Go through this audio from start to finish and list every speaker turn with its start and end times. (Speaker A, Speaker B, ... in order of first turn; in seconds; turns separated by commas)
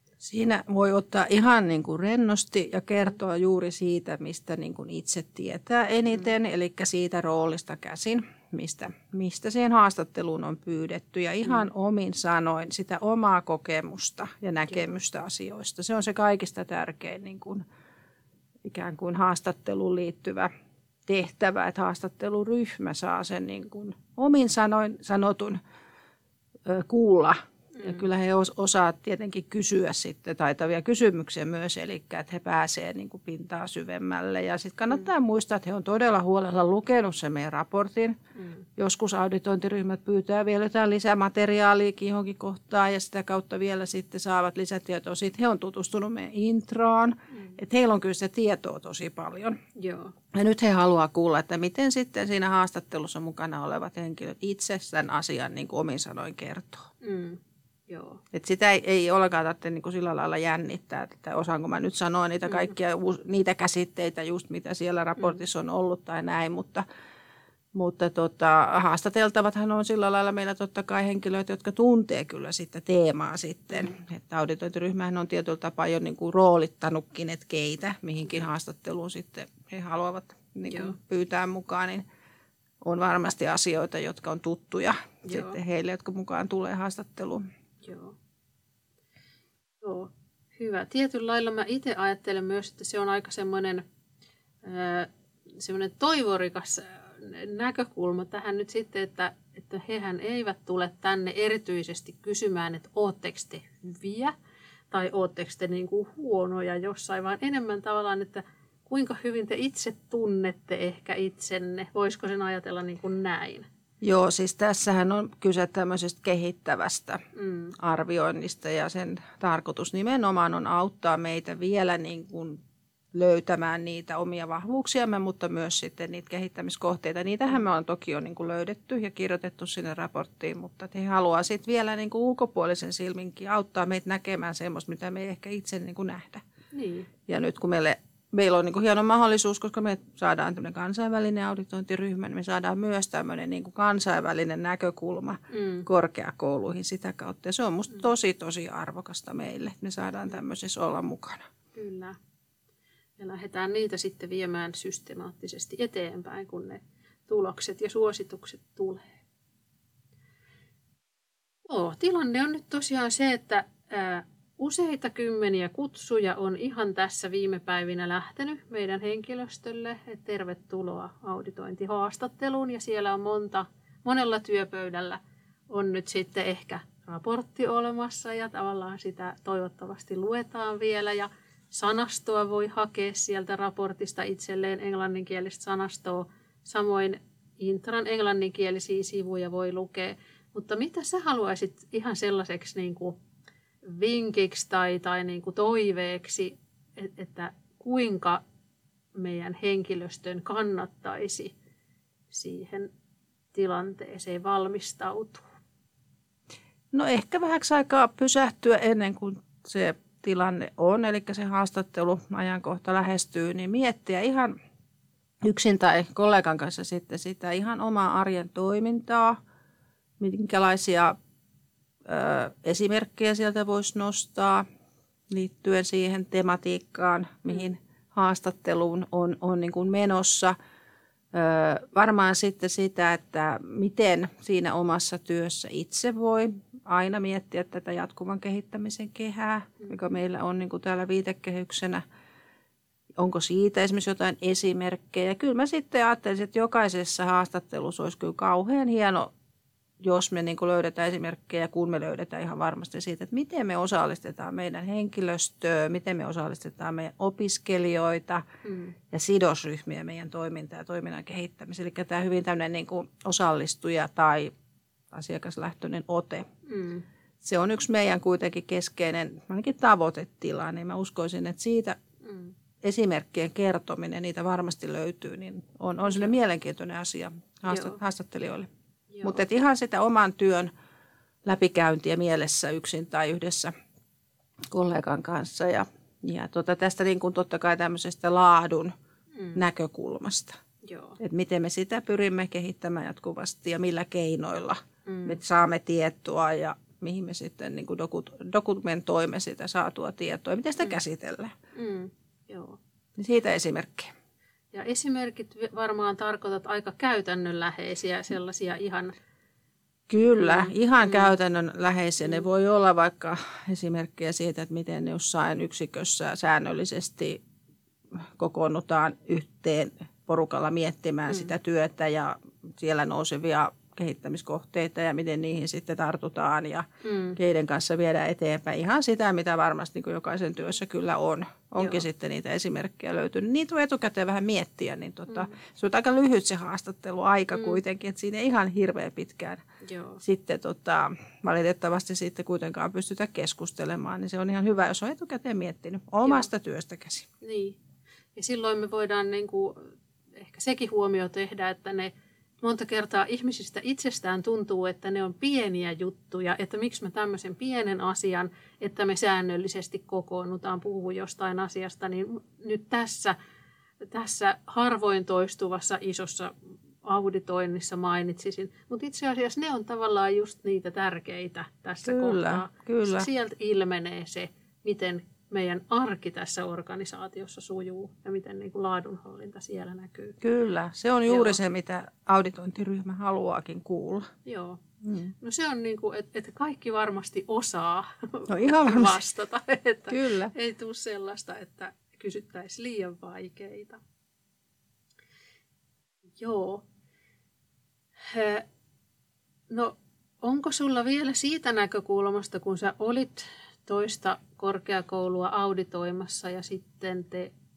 Speaker A: 0.2-17.6, Speaker A: 18.6-20.5, Speaker A: 21.1-25.6, Speaker A: 26.7-38.2, Speaker B: 38.4-38.6, Speaker A: 38.8-49.6, Speaker B: 47.3-47.6, Speaker B: 49.8-50.1, Speaker A: 50.3-56.9, Speaker B: 57.0-58.2, Speaker A: 58.3-66.8, Speaker A: 67.8-82.0, Speaker B: 73.7-74.0, Speaker B: 80.7-81.0, Speaker A: 82.8-87.4, Speaker B: 85.3-85.6, Speaker B: 87.8-88.2, Speaker B: 89.8-93.8, Speaker B: 94.6-104.3, Speaker B: 104.9-113.7, Speaker A: 114.0-117.2, Speaker B: 117.3-117.7, Speaker A: 117.8-122.6, Speaker A: 123.1-136.4, Speaker B: 136.7-137.1, Speaker A: 137.3-151.5, Speaker B: 145.5-145.9, Speaker B: 151.7-152.2, Speaker B: 153.2-159.1, Speaker B: 161.7-175.2, Speaker B: 175.7-193.2, Speaker B: 193.9-198.4, Speaker B: 199.2-201.6, Speaker B: 202.3-202.9, Speaker B: 203.5-205.5, Speaker A: 206.9-214.5, Speaker A: 215.4-219.4, Speaker A: 220.2-221.2, Speaker A: 222.1-224.6, Speaker A: 225.3-230.6, Speaker A: 231.3-242.0, Speaker A: 243.2-249.3, Speaker A: 250.0-258.4, Speaker B: 258.6-258.9, Speaker A: 259.1-264.5, Speaker A: 265.1-266.4, Speaker B: 266.7-267.1, Speaker A: 267.4-272.0, Speaker B: 272.2-272.5, Speaker A: 272.8-278.7, Speaker B: 276.0-276.3, Speaker B: 277.7-278.0, Speaker B: 279.1-279.4, Speaker A: 279.2-280.7, Speaker A: 281.4-283.7, Speaker A: 284.7-288.9, Speaker B: 289.3-289.6, Speaker A: 289.6-290.6, Speaker B: 290.8-291.2, Speaker A: 291.2-301.5, Speaker B: 295.1-295.4, Speaker B: 301.7-302.8, Speaker A: 303.2-304.1, Speaker B: 304.7-309.1, Speaker A: 310.1-317.4, Speaker B: 310.4-311.3, Speaker A: 318.4-326.9, Speaker B: 321.3-321.5, Speaker B: 327.0-327.4, Speaker A: 327.4-339.6, Speaker B: 331.8-332.0, Speaker B: 335.3-335.6, Speaker B: 337.5-337.8, Speaker B: 339.8-340.2, Speaker A: 340.2-347.3, Speaker B: 347.4-347.8, Speaker B: 348.4-363.4, Speaker B: 364.1-366.5, Speaker B: 367.0-380.4, Speaker A: 372.1-373.3, Speaker A: 380.4-384.3, Speaker B: 381.3-381.6, Speaker B: 384.5-384.8, Speaker A: 385.1-385.3, Speaker B: 385.4-394.0, Speaker A: 388.5-389.2, Speaker A: 390.1-390.5, Speaker B: 396.4-396.9, Speaker B: 398.3-398.6, Speaker B: 399.7-407.5